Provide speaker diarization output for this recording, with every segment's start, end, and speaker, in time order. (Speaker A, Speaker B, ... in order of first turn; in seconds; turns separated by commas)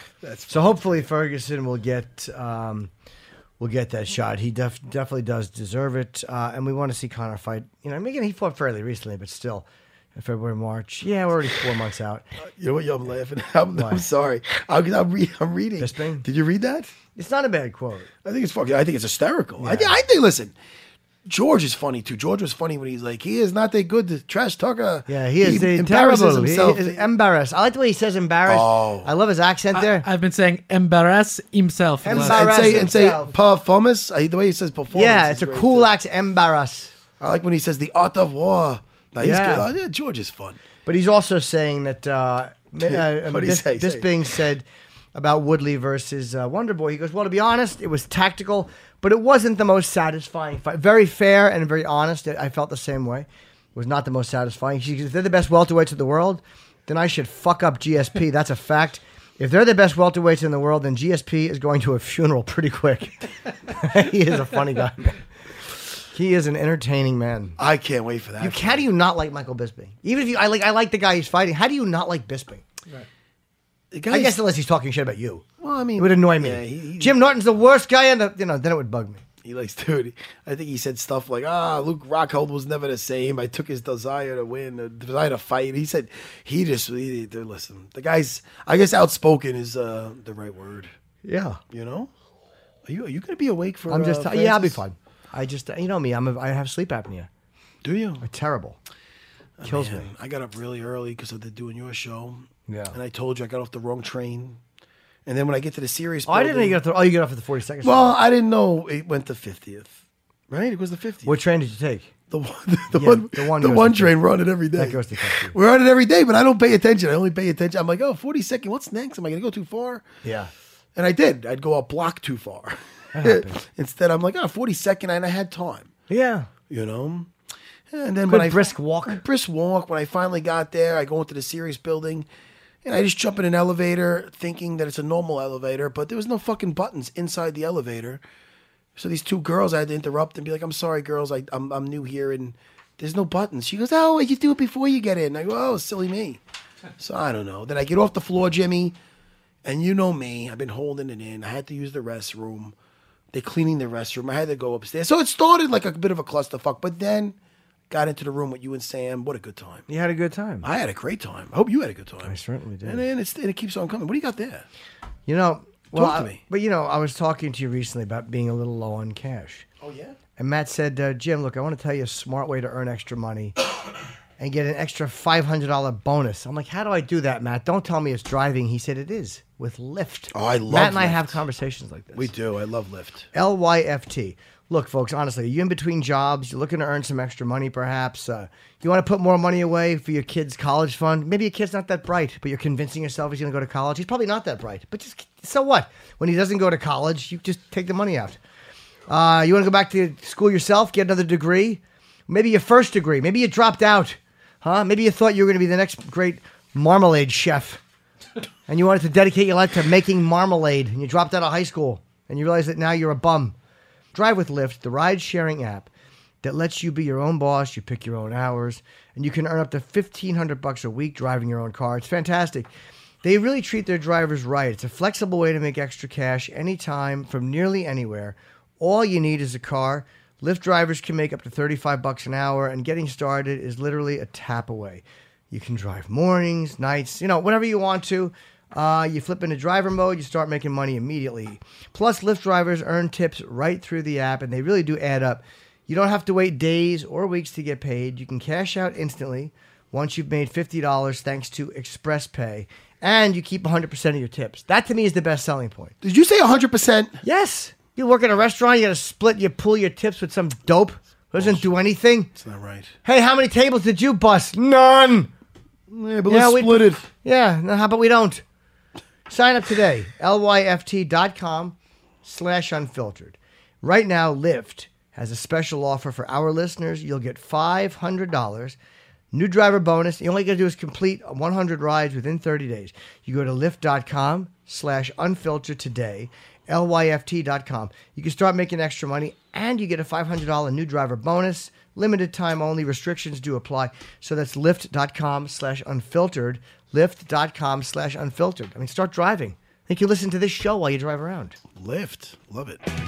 Speaker A: 0.2-0.9, Speaker B: 0.5-2.9, Speaker B: 3.6-12.2, Speaker A: 12.4-16.9, Speaker B: 13.8-14.0, Speaker B: 15.8-16.2, Speaker B: 17.2-18.1, Speaker A: 18.2-20.6, Speaker B: 19.6-20.0, Speaker A: 21.2-27.1, Speaker B: 25.1-30.1, Speaker A: 28.5-29.1, Speaker C: 29.7-32.8, Speaker B: 32.0-33.3, Speaker A: 32.1-35.9, Speaker B: 34.9-36.9, Speaker A: 37.2-40.6, Speaker B: 39.2-39.7, Speaker B: 40.9-65.2, Speaker A: 42.8-44.4, Speaker B: 66.1-67.6, Speaker A: 67.6-68.9, Speaker B: 68.4-72.6, Speaker A: 73.9-74.4, Speaker B: 74.1-75.5, Speaker A: 75.6-77.2, Speaker B: 76.0-79.2, Speaker A: 79.4-90.9, Speaker B: 91.2-91.6, Speaker A: 91.7-92.1, Speaker A: 92.9-94.8, Speaker B: 93.9-97.3, Speaker A: 97.8-98.2, Speaker B: 98.2-98.8, Speaker A: 99.6-104.6, Speaker B: 99.7-100.1, Speaker B: 102.7-103.0, Speaker A: 105.3-106.8, Speaker B: 106.3-108.2, Speaker A: 107.8-110.0, Speaker A: 110.5-111.4, Speaker B: 111.2-112.1, Speaker A: 112.3-120.0, Speaker B: 112.9-114.2, Speaker B: 114.7-115.6, Speaker B: 120.2-120.5, Speaker A: 121.0-125.9, Speaker B: 123.1-123.6, Speaker B: 126.1-126.5, Speaker A: 126.7-127.3, Speaker A: 127.9-132.3, Speaker B: 128.3-129.2, Speaker A: 132.8-138.2, Speaker A: 139.0-146.4, Speaker A: 147.0-149.0, Speaker A: 149.6-152.8, Speaker A: 153.3-157.4, Speaker A: 157.9-159.9, Speaker B: 159.9-160.7, Speaker A: 160.6-164.7, Speaker B: 162.2-163.1, Speaker B: 165.3-169.7, Speaker A: 165.9-166.4, Speaker A: 169.8-170.2, Speaker B: 170.4-173.6, Speaker B: 174.4-182.3, Speaker A: 180.3-181.4, Speaker A: 182.1-183.3, Speaker B: 183.3-198.4, Speaker B: 199.1-207.8, Speaker B: 208.7-213.6, Speaker B: 214.1-215.9, Speaker B: 216.4-222.7, Speaker B: 223.2-255.9, Speaker A: 256.0-257.2, Speaker B: 257.2-262.3, Speaker A: 261.4-261.7, Speaker A: 262.4-262.9, Speaker B: 263.0-265.3, Speaker A: 265.9-267.1, Speaker B: 266.3-268.4, Speaker B: 269.3-278.8, Speaker B: 279.3-301.6, Speaker A: 301.8-302.8